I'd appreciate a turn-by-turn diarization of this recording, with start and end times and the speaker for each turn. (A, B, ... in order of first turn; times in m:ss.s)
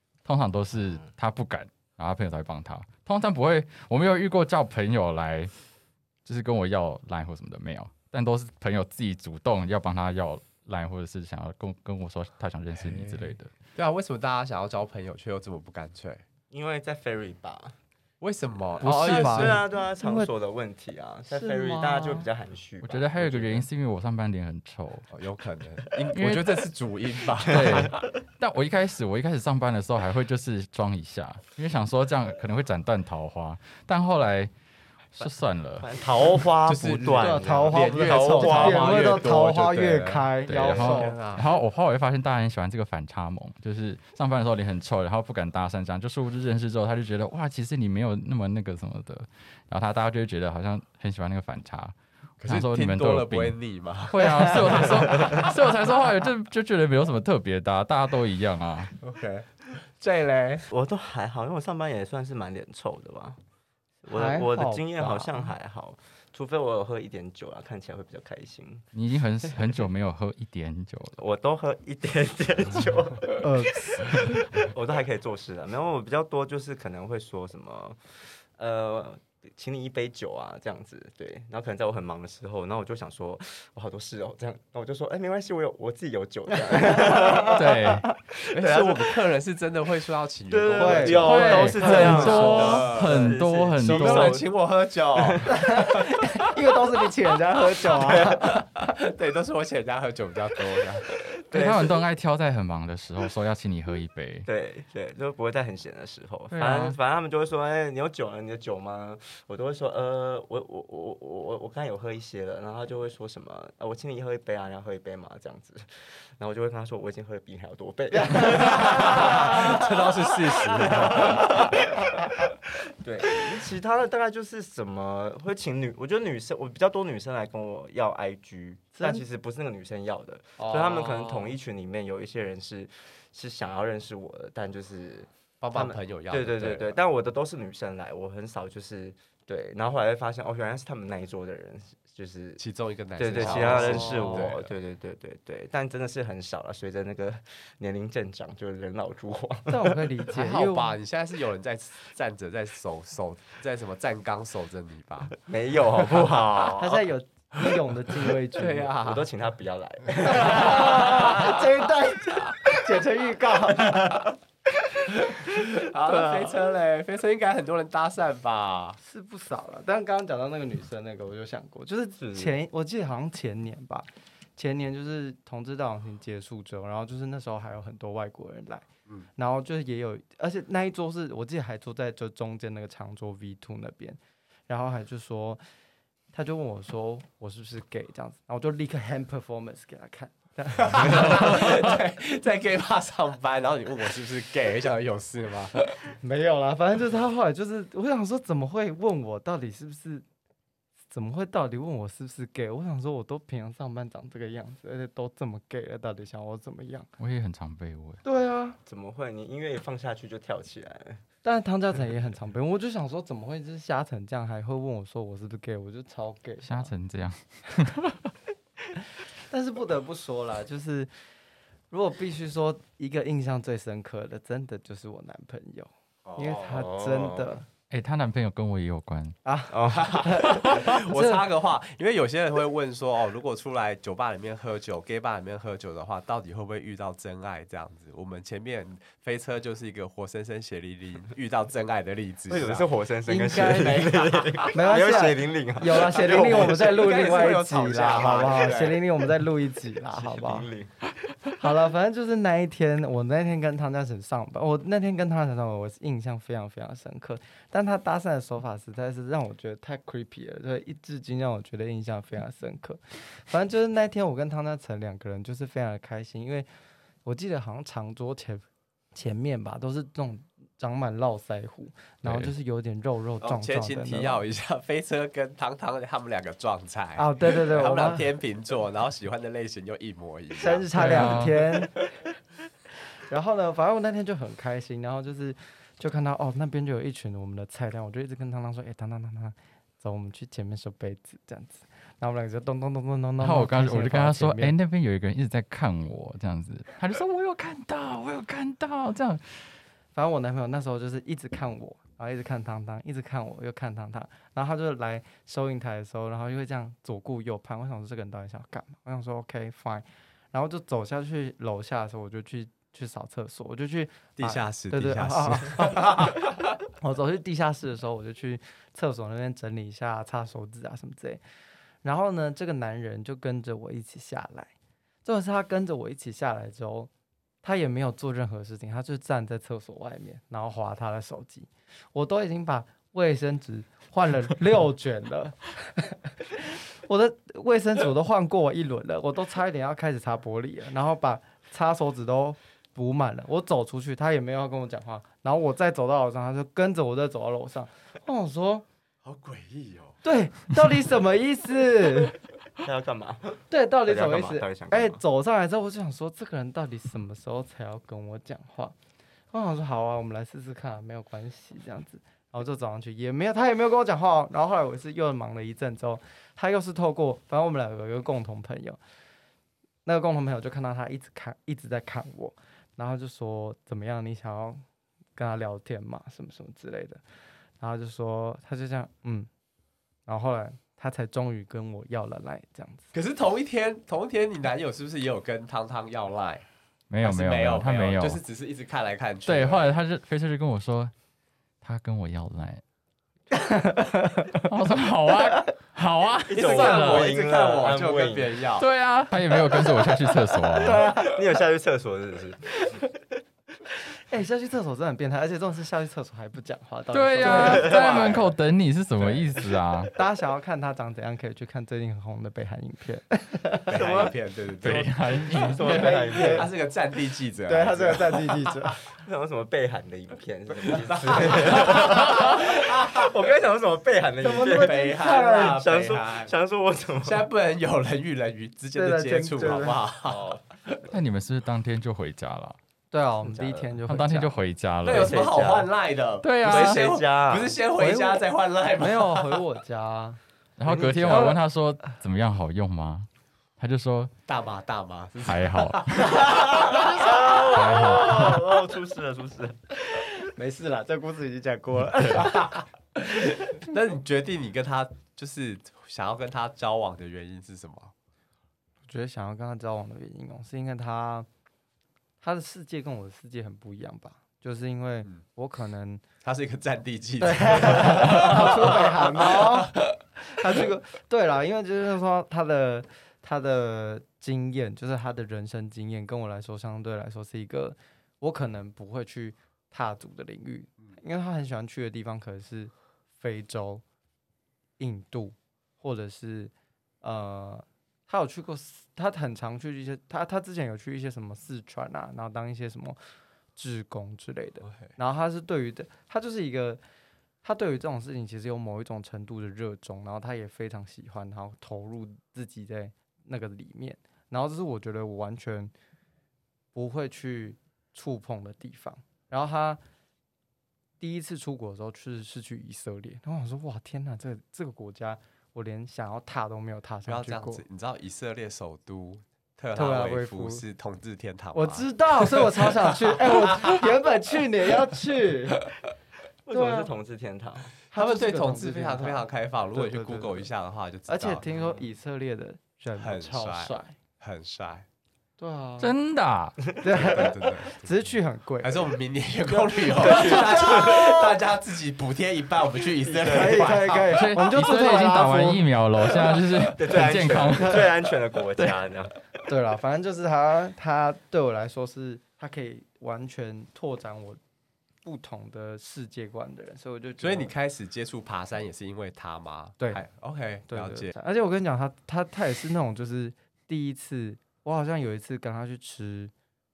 0:00.2-0:05.5 A
0:06.2-0:13.5 A
0:12.7-0:16.2 B
0:16.5-0:17.8 C
0:18.2-0:19.6 B
0:18.8-0:20.3 D
0:18.8-0:23.7 C
0:21.3-0:22.3 D
0:22.8-0:25.1 A
0:25.1-0:28.0 B
0:26.1-0:26.6 A
0:27.4-0:34.5 A
0:35.1-0:35.9 A
0:35.2-0:39.2 C
0:36.6-0:41.4 B
0:37.2-0:41.2 D
0:40.5-0:58.9 A
0:52.4-0:55.4 B
0:59.0-1:00.7 B
1:00.7-1:03.4 C
1:04.0-1:08.8 C
1:04.1-1:05.5 D
1:08.9-1:11.2 A
1:11.2-1:27.7 C
1:13.4-1:14.2 D
1:26.7-1:28.2 D
1:27.5-1:28.0 A
1:28.5-1:35.8 B
1:28.5-1:29.2 C
1:30.5-1:34.5 C
1:30.8-1:32.8 D
1:31.2-1:34.4 A
1:35.1-1:35.6 C
1:35.5-1:38.6 D
1:38.0-1:38.5 C
1:38.1-1:41.2 B
1:41.4-1:42.0 C
1:41.5-1:44.5 A
1:44.5-2:01.9 C
1:46.6-1:47.0 A
1:58.1-1:59.9 D
1:58.4-2:01.6 B
2:00.8-2:02.6 D
2:02.9-2:22.6 C
2:09.0-2:09.2 D
2:10.6-2:11.6 D
2:15.6-2:17.0 B
2:22.6-2:24.7 B
2:23.2-2:30.0 C
2:23.3-2:24.5 D
2:29.7-2:30.9 D
2:30.3-2:35.4 B
2:35.4-2:37.0 C
2:36.8-2:38.9 D
2:38.6-2:39.3 B
2:38.9-2:41.6 C
2:40.2-2:44.3 D
2:40.3-2:41.5 B
2:45.2-2:49.0 B
2:46.1-2:46.5 C
2:49.0-2:58.9 D
2:52.2-2:52.6 C
2:59.4-3:05.6 D
3:06.3-3:11.9 D
3:10.8-3:15.9 B
3:16.2-3:20.2 D
3:21.1-3:27.1 D
3:27.2-3:28.2 A
3:28.2-3:28.8 D
3:28.8-3:31.2 C
3:31.4-3:36.9 D
3:36.6-3:38.3 A
3:39.0-3:41.1 D
3:41.9-3:47.6 D
3:46.4-3:47.6 C
3:47.9-3:49.4 A
3:49.4-3:51.4 D
3:49.7-3:50.3 C
3:49.9-4:02.9 B
4:02.5-4:07.1 C
4:03.3-4:04.1 D
4:03.5-4:05.2 B
4:04.7-4:10.7 D
4:05.9-4:09.0 B
4:10.1-4:11.0 C
4:11.6-4:26.7 D
4:27.2-4:34.4 D
4:32.2-4:32.5 A
4:33.4-4:41.5 B
4:37.2-4:38.3 D
4:40.6-4:42.0 D
4:41.0-4:41.6 A
4:43.3-4:54.7 D
4:53.4-4:59.7 A
5:00.1-5:21.4 D
5:14.4-5:16.4 B
5:22.0-5:24.7 D
5:25.2-5:27.1 D
5:27.6-5:48.8 D
5:49.2-5:50.2 B
5:50.2-5:52.4 D
5:52.8-5:55.2 C
5:53.7-5:59.0 D
5:59.5-6:09.0 D
6:10.0-6:14.8 D
6:15.4-6:17.2 D
6:17.8-6:19.5 D
6:20.3-6:23.1 D
6:23.1-6:26.6 B
6:27.1-6:28.4 A
6:27.2-6:30.0 B
6:29.5-6:31.1 A
6:31.8-6:32.8 A
6:33.5-6:34.7 D
6:34.6-6:37.3 A
6:36.5-6:38.6 C
6:36.5-6:38.9 B
6:38.8-6:41.1 A
6:40.7-6:41.4 D
6:40.8-6:43.1 C
6:44.1-6:48.5 D
6:47.1-6:50.1 A
6:47.4-6:48.5 C
6:50.1-6:54.0 D
6:53.9-6:55.1 B
6:53.9-6:56.7 C
6:54.8-6:56.1 A
6:55.6-6:56.7 D
6:56.0-6:58.7 B
6:57.7-6:59.0 D
6:59.1-7:07.4 C
7:00.9-7:03.3 B
7:04.4-7:05.8 D
7:04.6-7:06.5 B
7:07.2-7:11.0 B
7:09.0-7:10.0 D
7:10.2-7:10.6 C
7:11.1-7:12.8 A
7:13.1-7:14.6 D
7:13.4-7:14.0 C
7:14.1-7:15.4 A
7:15.0-7:19.6 B
7:15.0-7:15.9 C
7:16.4-7:17.1 A
7:16.6-7:17.8 C
7:18.0-7:20.4 D
7:20.8-7:24.3 A
7:20.8-7:21.5 C
7:21.3-7:21.6 D
7:24.5-7:27.4 B
7:25.4-7:26.5 A
7:26.8-7:27.6 D
7:26.9-7:29.8 C
7:27.7-7:28.6 A
7:30.1-7:32.8 D
7:33.2-7:38.1 B
7:39.1-7:41.5 D
7:42.4-7:46.2 D
7:46.4-7:50.2 B
7:47.4-8:04.0 D
8:05.0-8:13.2 D
8:13.8-8:17.0 D
8:17.6-8:25.9 D
8:26.9-8:30.0 D
8:31.2-8:37.8 D
8:37.3-8:44.1 B
8:40.0-8:40.8 D
8:41.7-8:45.9 D
8:46.7-8:47.9 C
8:46.7-8:47.1 D
8:48.1-8:51.6 B
8:48.1-8:50.7 D
8:51.3-8:54.2 D
8:51.7-8:52.1 C
8:53.2-8:55.1 B
8:55.6-8:56.1 D
8:56.0-8:56.8 A
8:57.0-8:59.1 D
8:57.1-8:58.2 B
8:58.8-9:04.3 B
9:00.0-9:01.3 D
9:00.0-9:01.6 C
9:03.2-9:04.3 C
9:03.5-9:05.9 D
9:04.3-9:08.2 A
9:06.8-9:09.4 C
9:07.8-9:08.1 D
9:09.7-9:14.6 D
9:15.2-9:17.7 D
9:17.4-9:21.3 B
9:20.9-9:26.5 D